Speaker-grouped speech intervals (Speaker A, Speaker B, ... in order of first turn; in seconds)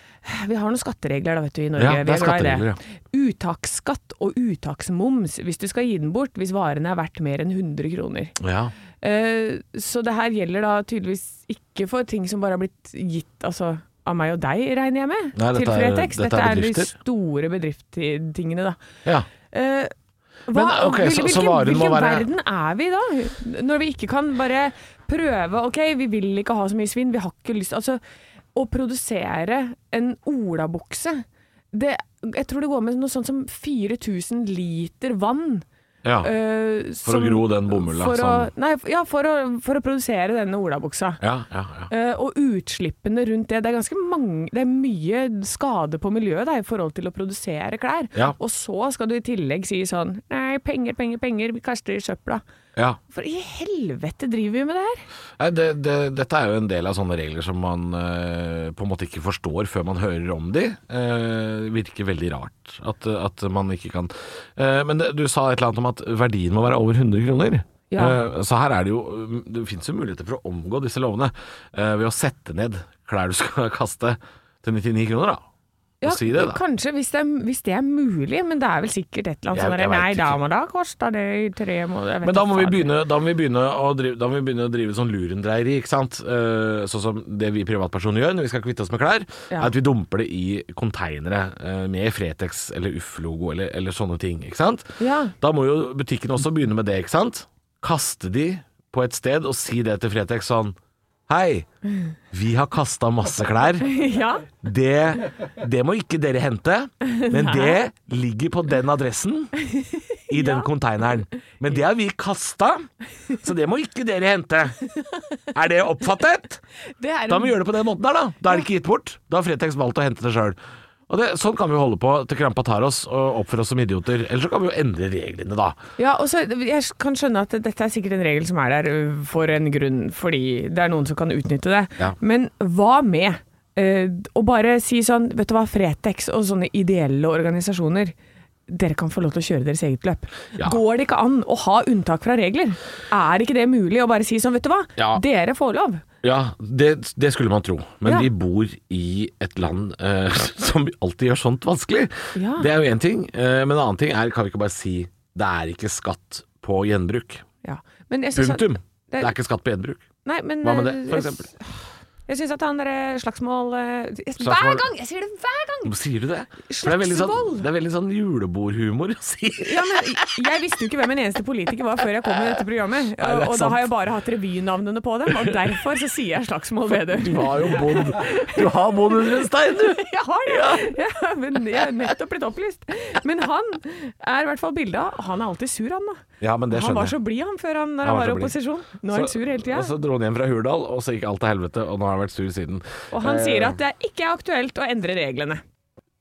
Speaker A: 0.2-8.3, 9.0-18.8, 19.5-19.9, 20.5-28.0, 28.5-35.6, 36.2-41.2, 41.9-52.4, 53.1-55.0, 67.9-68.2, 76.0-82.9, 95.0-95.3, 103.8-104.5, 107.1-107.8, 109.8-110.7, 117.0-117.6, 126.0-138.1, 138.7-146.0, 152.3-152.7, 157.6-159.3, 160.2-161.6, 162.3-165.9, 166.7-167.7, 169.6-178.7, 179.7-189.9, 193.1-195.6
Speaker B: 1.8-2.8, 8.4-8.7, 15.3-16.9, 20.5-22.3, 36.0-36.3, 37.0-38.5, 41.2-41.9, 55.4-75.5, 76.0-76.6, 79.5-80.4, 82.2-100.8, 101.3-101.7, 102.3-104.0, 104.5-109.5, 110.3-114.8, 115.5-116.6, 117.3-120.6, 121.1-125.8, 145.0-145.2, 146.2-157.4, 158.3-160.1, 160.6-161.5, 164.4-164.9, 165.8-170.2, 173.2-173.8, 175.4-175.7, 176.9-180.9, 186.4-187.2, 188.0-188.6, 189.1-193.8